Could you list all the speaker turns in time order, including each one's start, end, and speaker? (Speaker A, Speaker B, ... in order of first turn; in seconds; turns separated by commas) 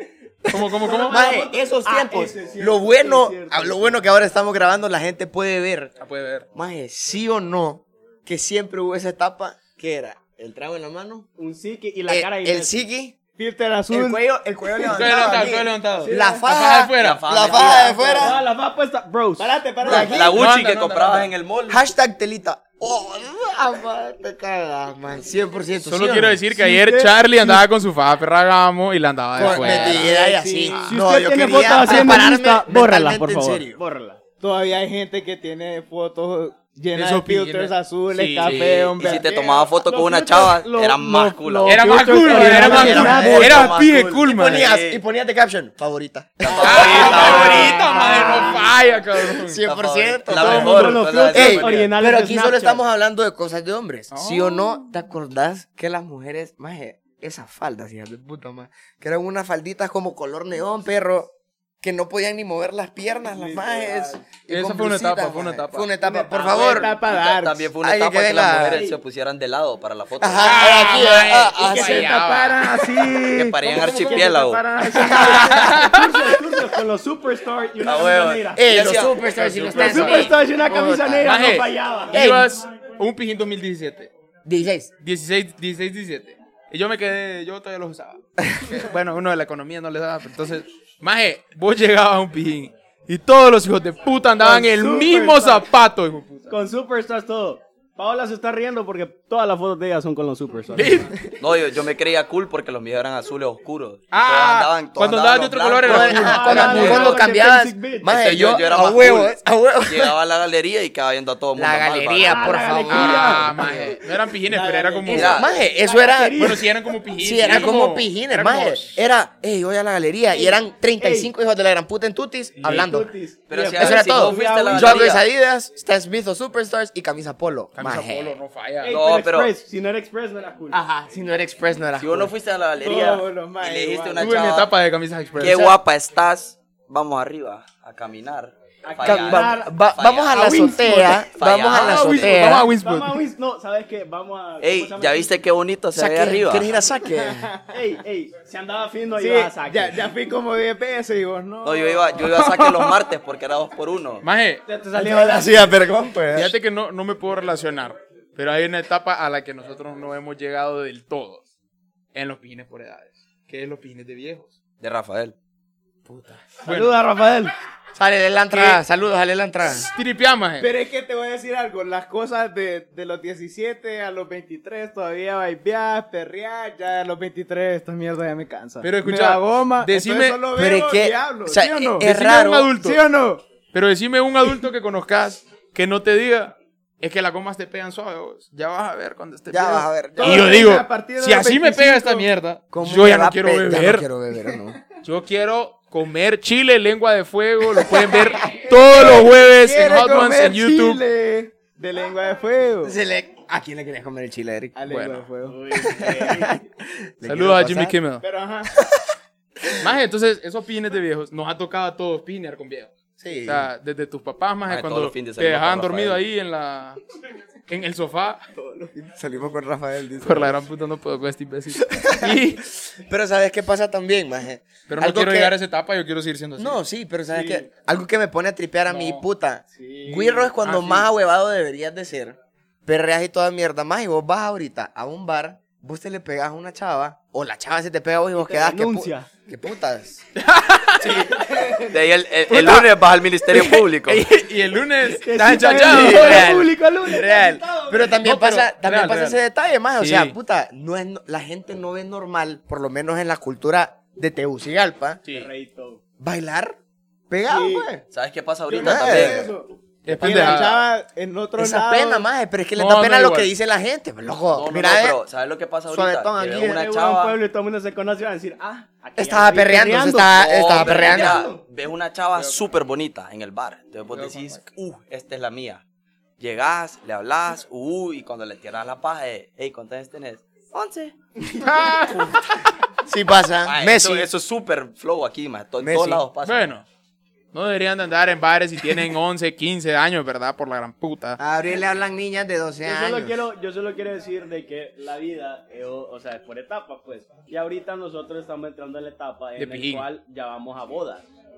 Speaker A: 0.5-1.4, Speaker B: 0.5-5.9, Speaker C: 0.8-4.0, Speaker A: 6.0-6.5, Speaker B: 6.5-11.3, Speaker C: 11.4-12.8, Speaker B: 12.1-13.2, Speaker D: 13.4-15.1, Speaker B: 13.9-18.4, Speaker A: 14.8-17.2, Speaker D: 16.0-16.4, Speaker E: 17.0-17.9, Speaker C: 17.5-19.6, Speaker D: 17.7-18.4, Speaker D: 19.4-20.5, Speaker B: 19.8-20.4, Speaker E: 19.8-21.8, Speaker A: 20.3-21.3, Speaker B: 21.7-26.4, Speaker A: 25.8-30.1, Speaker C: 26.6-27.1, Speaker D: 26.6-27.6, Speaker B: 29.4-33.8, Speaker D: 29.4-30.8, Speaker C: 30.8-34.2, Speaker D: 34.4-39.3, Speaker A: 36.9-39.0, Speaker E: 38.4-43.7, Speaker C: 39.1-45.0, Speaker A: 41.6-44.7, Speaker B: 42.4-48.3, Speaker E: 46.4-47.9, Speaker A: 46.6-49.6, Speaker C: 47.0-48.6, Speaker D: 47.8-48.5, Speaker B: 49.2-66.9, Speaker E: 49.6-51.9, Speaker A: 50.3-51.0, Speaker C: 50.4-52.8, Speaker A: 54.1-54.7, Speaker D: 63.3-64.2, Speaker A: 64.5-65.9, Speaker D: 66.0-67.7, Speaker C: 66.5-66.9, Speaker E: 66.9-70.8, Speaker B: 67.8-68.8, Speaker C: 68.7-69.0, Speaker B: 70.2-72.2, Speaker A: 70.4-73.0, Speaker D: 71.6-75.8, Speaker E: 73.3-74.6, Speaker C: 75.0-78.9, Speaker A: 75.0-76.1, Speaker E: 77.8-79.2, Speaker B: 78.5-80.4, Speaker A: 79.2-84.1, Speaker C: 79.7-82.2, Speaker B: 82.1-82.5, Speaker B: 84.4-84.9, Speaker A: 85.0-96.5, Speaker C: 94.4-95.6, Speaker D: 94.4-95.6, Speaker C: 96.5-101.0, Speaker A: 100.7-101.2, Speaker E: 101.4-107.2, Speaker A: 104.1-107.2, Speaker B: 105.8-110.1, Speaker C: 106.0-108.2, Speaker E: 108.1-112.7, Speaker B: 111.5-113.8, Speaker C: 112.2-113.5, Speaker A: 112.8-115.4, Speaker C: 114.5-116.8, Speaker D: 114.5-115.3, Speaker E: 115.1-115.5, Speaker B: 115.1-116.6, Speaker A: 116.3-118.9, Speaker B: 117.2-123.1, Speaker C: 120.3-121.3, Speaker C: 122.6-125.1, Speaker A: 122.6-122.9, Speaker E: 123.5-125.2, Speaker B: 123.8-128.4, Speaker A: 127.7-128.9, Speaker C: 128.8-130.8, Speaker E: 128.9-129.5, Speaker B: 130.7-132.3, Speaker E: 132.0-134.7, Speaker D: 132.8-134.5, Speaker A: 134.2-135.8, Speaker E: 135.4-140.7, Speaker C: 138.8-139.7, Speaker B: 139.0-142.7, Speaker D: 140.4-141.2, Speaker E: 141.3-142.5, Speaker A: 141.7-143.2, Speaker C: 142.7-145.3, Speaker E: 144.6-146.7, Speaker B: 145.9-147.5, Speaker D: 147.1-147.6, Speaker C: 147.7-150.0, Speaker D: 149.2-153.0, Speaker E: 151.6-154.2, Speaker A: 154.2-154.6, Speaker C: 154.7-155.8, Speaker B: 154.9-156.5, Speaker A: 156.3-161.4, Speaker A: 162.1-164.5, Speaker E: 164.8-165.3, Speaker A: 166.1-167.0, Speaker C: 166.6-167.5, Speaker B: 167.9-169.9, Speaker A: 168.5-168.8, Speaker A: 169.8-170.7, Speaker D: 170.6-182.1, Speaker A: 178.8-180.4, Speaker B: 180.5-182.7, Speaker A: 182.0-183.0, Speaker D: 182.7-183.4, Speaker A: 183.7-194.1, Speaker B: 189.5-190.5, Speaker D: 190.2-192.3, Speaker B: 192.7-194.8, Speaker A: 195.0-201.0, Speaker D: 198.7-203.0, Speaker B: 202.8-204.8, Speaker D: 204.8-205.6, Speaker A: 204.9-205.2, Speaker C: 205.4-206.6, Speaker B: 205.8-207.9, Speaker A: 207.2-208.2, Speaker D: 208.2-208.7, Speaker B: 208.7-209.1, Speaker A: 209.8-212.9, Speaker B: 213.2-213.7, Speaker A: 213.5-217.0, Speaker E: 214.7-216.2, Speaker A: 217.7-218.4, Speaker D: 218.5-218.9, Speaker B: 218.9-220.6, Speaker A: 220.2-222.6, Speaker B: 221.8-222.4, Speaker B: 222.9-225.5, Speaker A: 224.9-226.8, Speaker B: 226.6-240.2, Speaker D: 227.3-227.6, Speaker A: 228.9-229.2, Speaker D: 229.7-230.5, Speaker A: 230.6-231.1, Speaker C: 238.3-239.3, Speaker A: 240.4-241.6, Speaker E: 241.9-244.3, Speaker A: 242.5-242.9, Speaker A: 243.5-247.6, Speaker C: 245.0-247.6, Speaker D: 247.2-248.1, Speaker B: 247.8-255.2, Speaker A: 248.2-249.4, Speaker A: 250.0-250.3, Speaker C: 255.3-256.0, Speaker B: 256.2-256.8, Speaker B: 257.3-258.0, Speaker D: 257.4-257.9, Speaker E: 258.1-259.5, Speaker D: 258.7-262.3, Speaker B: 258.8-259.5, Speaker A: 260.0-260.9, Speaker B: 261.6-265.2, Speaker A: 262.8-263.5, Speaker E: 264.5-267.4, Speaker B: 265.9-266.9, Speaker C: 266.6-270.3, Speaker B: 269.2-271.6, Speaker E: 270.3-275.8, Speaker C: 271.0-271.4, Speaker A: 274.1-274.6, Speaker E: 276.4-281.1, Speaker A: 281.6-282.6, Speaker B: 283.1-284.3, Speaker E: 283.6-286.7, Speaker B: 285.8-286.2, Speaker A: 286.4-286.8, Speaker A: 287.5-291.4, Speaker B: 291.4-293.4, Speaker C: 292.8-301.3, Speaker A: 299.6-300.1